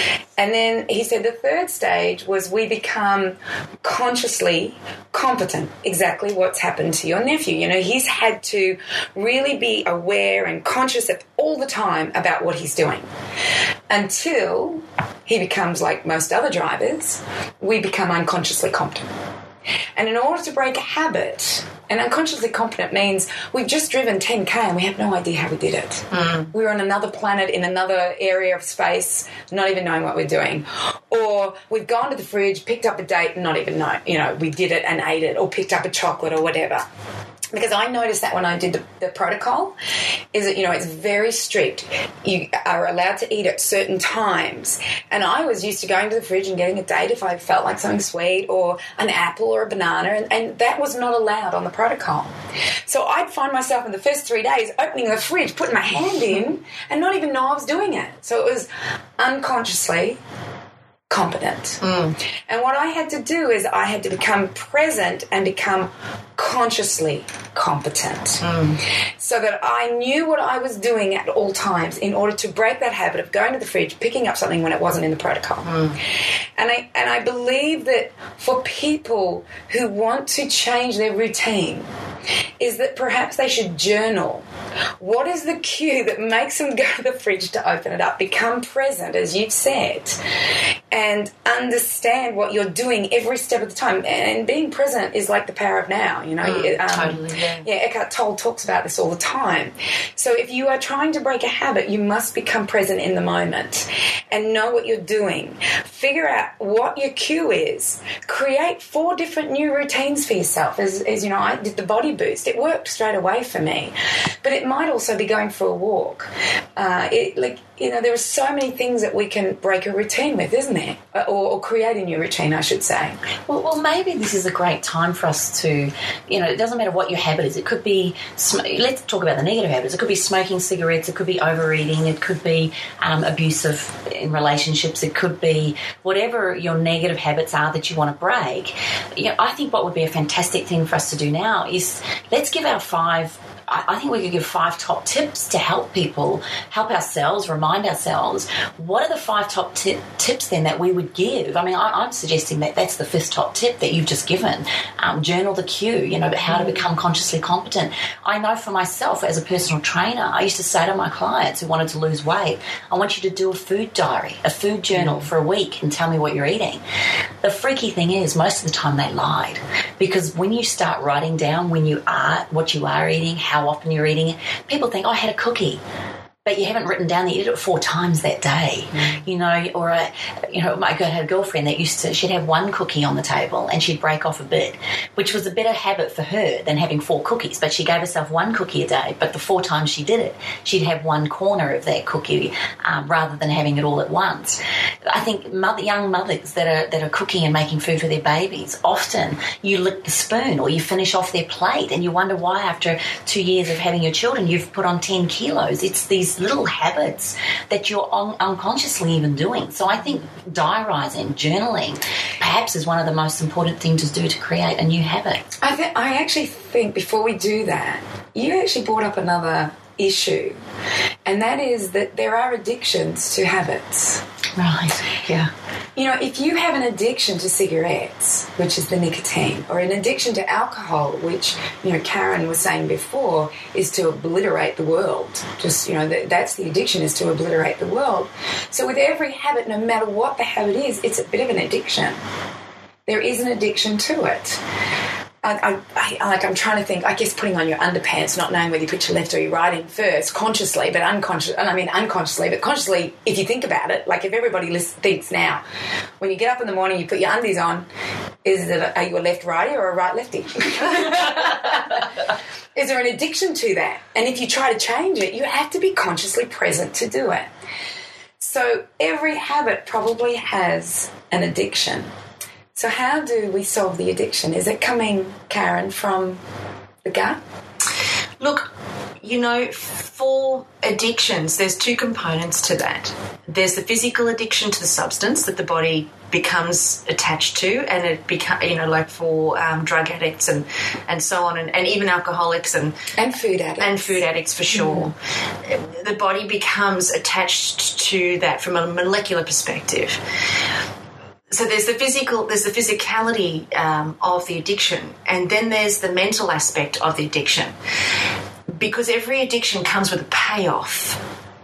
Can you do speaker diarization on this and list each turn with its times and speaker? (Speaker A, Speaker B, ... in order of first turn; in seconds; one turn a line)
Speaker A: 0.4-13.1
Speaker A: 13.9-19.2
Speaker A: 19.9-36.8
Speaker B: 26.1-26.5
Speaker A: 37.5-39.7
Speaker A: 40.3-52.3
Speaker A: 52.9-60.2
Speaker A: 61.1-61.8
Speaker B: 61.8-62.1
Speaker A: 62.5-68.4
Speaker B: 68.4-68.8
Speaker A: 69.2-75.8
Speaker B: 75.7-76.0
Speaker A: 76.6-81.9
Speaker A: 82.6-84.5
Speaker A: 85.0-90.2
Speaker A: 90.9-123.2
Speaker B: 96.4-97.7
Speaker C: 123.5-166.8
Speaker C: 167.4-175.8
Speaker C: 176.4-215.4
Speaker A: 215.6-220.6
Speaker A: 221.2-224.2
Speaker C: 224.6-225.5
Speaker A: 225.9-242.2
Speaker A: 243.1-244.6
Speaker A: 245.4-255.6
Speaker A: 256.2-257.9
Speaker A: 258.4-262.2
Speaker A: 262.7-267.5
Speaker A: 268.4-272.1
Speaker A: 272.7-276.4
Speaker A: 277.0-277.4
Speaker B: 278.4-293.0
Speaker A: 293.1-294.2
Speaker B: 293.8-300.2
Speaker A: 294.8-295.1
Speaker B: 301.5-307.7
Speaker B: 308.7-311.2